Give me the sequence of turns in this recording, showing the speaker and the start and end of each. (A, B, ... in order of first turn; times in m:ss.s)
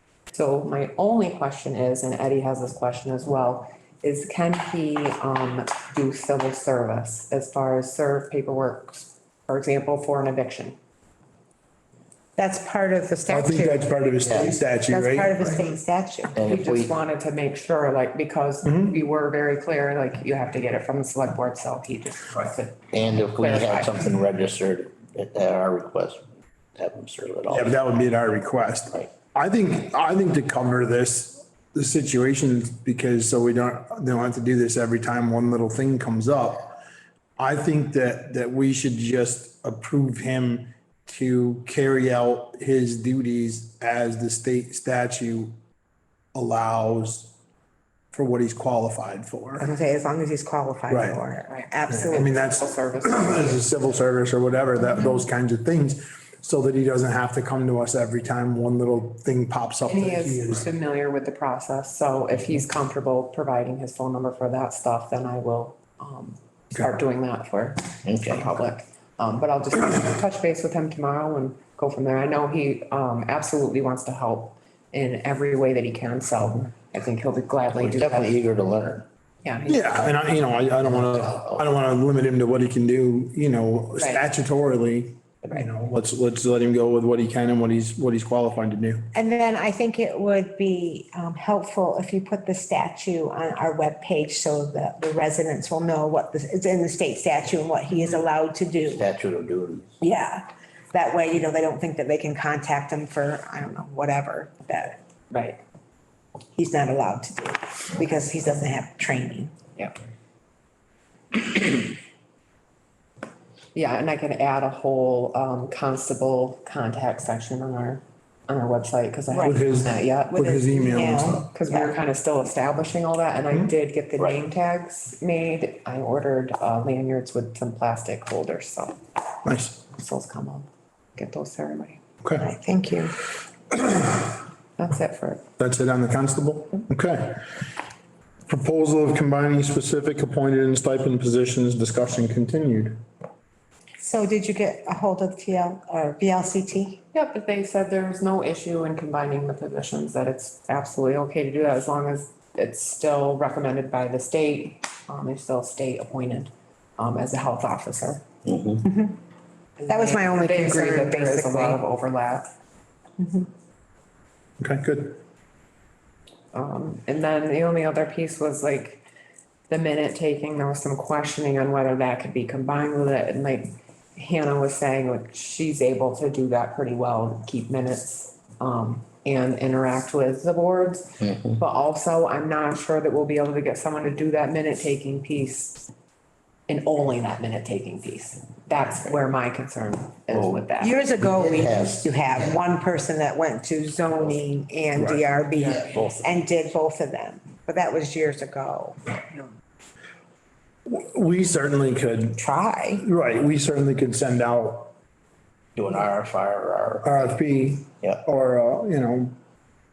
0:00.3-0:10.8 A
0:12.4-0:13.9 B
0:13.3-0:15.6 C
0:14.2-0:14.6 D
0:14.5-0:16.4 B
0:16.4-0:17.0 D
0:16.4-0:24.0 A
0:18.6-0:19.0 C
0:22.9-0:27.7 D
0:27.5-0:36.8 C
0:37.4-0:45.6 C
0:46.3-0:47.4 C
0:48.1-0:49.7 C
0:49.6-0:52.3 B
0:50.9-0:51.2 C
0:51.5-0:53.6 A
0:51.9-1:00.7 C
0:59.9-1:18.4 A
1:08.0-1:08.5 D
1:17.8-1:19.1 D
1:19.4-1:20.1 A
1:19.7-1:29.1 C
1:24.0-1:24.2 A
1:29.1-1:39.1 B
1:38.9-1:40.0 D
1:40.0-1:45.0 B
1:45.3-1:45.6 A
1:46.6-1:49.5 B
1:53.8-2:01.0 A
1:59.3-1:59.6 B
1:59.4-2:01.5 C
2:00.8-2:01.9 B
2:01.5-2:09.0 A
2:09.4-2:09.8 C
2:09.9-2:12.0 A
2:12.4-2:13.2 B
2:14.8-2:15.4 A
2:15.6-2:17.7 C
2:18.5-2:23.0 C
2:24.0-2:27.0 B
2:27.1-2:38.2 A
2:38.5-2:38.8 D
2:38.8-2:39.2 B
2:39.8-2:42.5 A
2:39.9-2:41.8 B
2:43.2-2:43.5 B
2:44.6-2:45.2 C
2:46.5-2:49.0 A
2:49.7-3:05.9 A
3:01.3-3:01.6 D
3:06.7-3:11.0 A
3:10.3-3:10.6 D
3:10.8-3:19.0 B
3:11.2-3:12.1 D
3:15.0-3:15.2 C
3:15.6-3:16.2 D
3:20.9-3:22.4 C
3:22.4-3:23.0 B
3:23.0-3:24.9 C
3:25.8-3:27.2 D
3:27.0-3:29.4 C